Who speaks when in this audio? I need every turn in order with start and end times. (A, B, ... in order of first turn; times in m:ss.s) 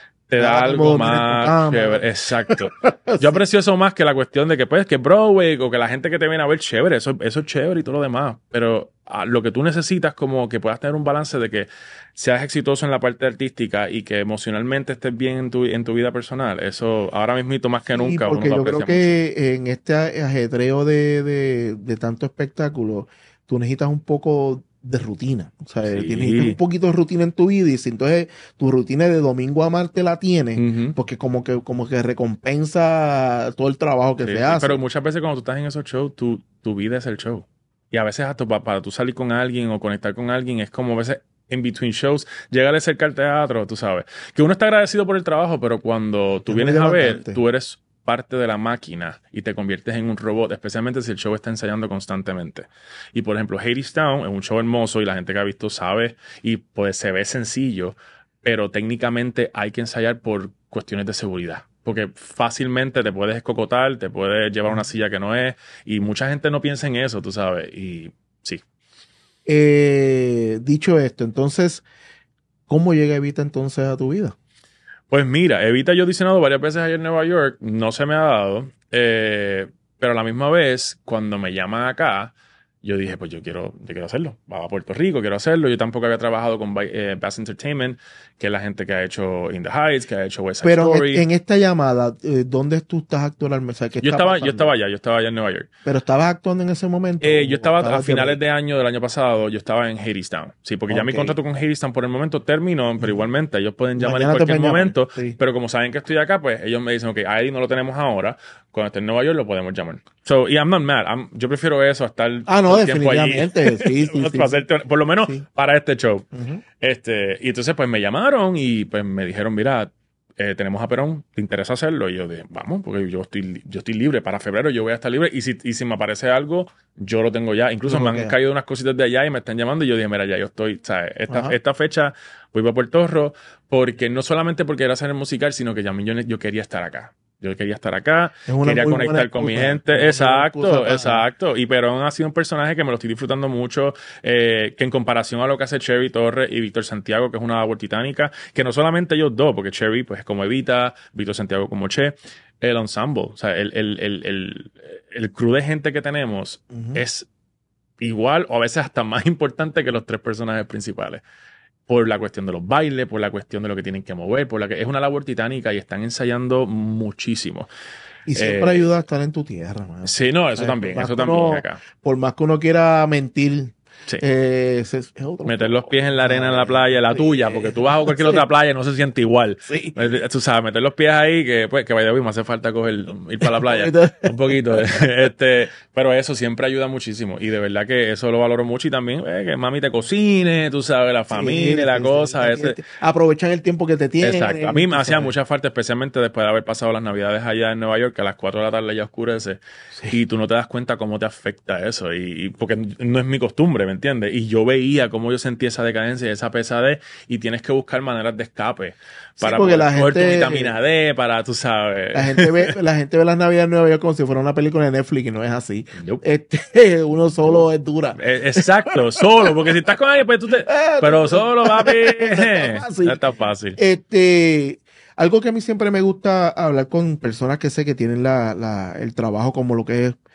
0:00.3-0:19.2 A
0:00.4-0:03.4 B
0:17.9-0:34.8 B
0:25.8-0:26.6 A
0:30.6-0:31.0 A
0:34.2-1:08.6 A
0:46.5-0:47.4 B
1:09.4-1:11.8 B
1:12.7-1:14.4 B
1:15.1-1:31.2 A
1:30.6-1:34.7 B
1:34.0-1:35.7 A
1:35.8-1:38.4 B
1:37.2-1:56.3 A
1:40.9-1:41.4 B
1:44.0-1:45.4 B
1:52.5-1:54.5 B
1:56.3-1:56.6 B
1:56.8-2:37.3 A
2:07.9-2:08.3 B
2:11.3-2:11.6 B
2:18.5-2:21.2 B
2:36.7-2:37.0 B
2:38.0-2:41.2 A
2:41.9-2:47.7 A
2:48.2-2:58.4 B
2:48.3-2:48.9 A
2:50.0-2:51.8 A
2:55.4-3:12.8 A
2:59.6-3:00.0 B
3:03.4-3:05.0 B
3:11.3-3:15.3 B
3:14.2-3:32.7 A
3:29.4-3:30.7 B
3:32.1-3:39.2 B
3:36.0-3:36.2 A
3:38.2-3:43.8 A
3:40.7-3:43.2 B
3:43.8-3:50.2 B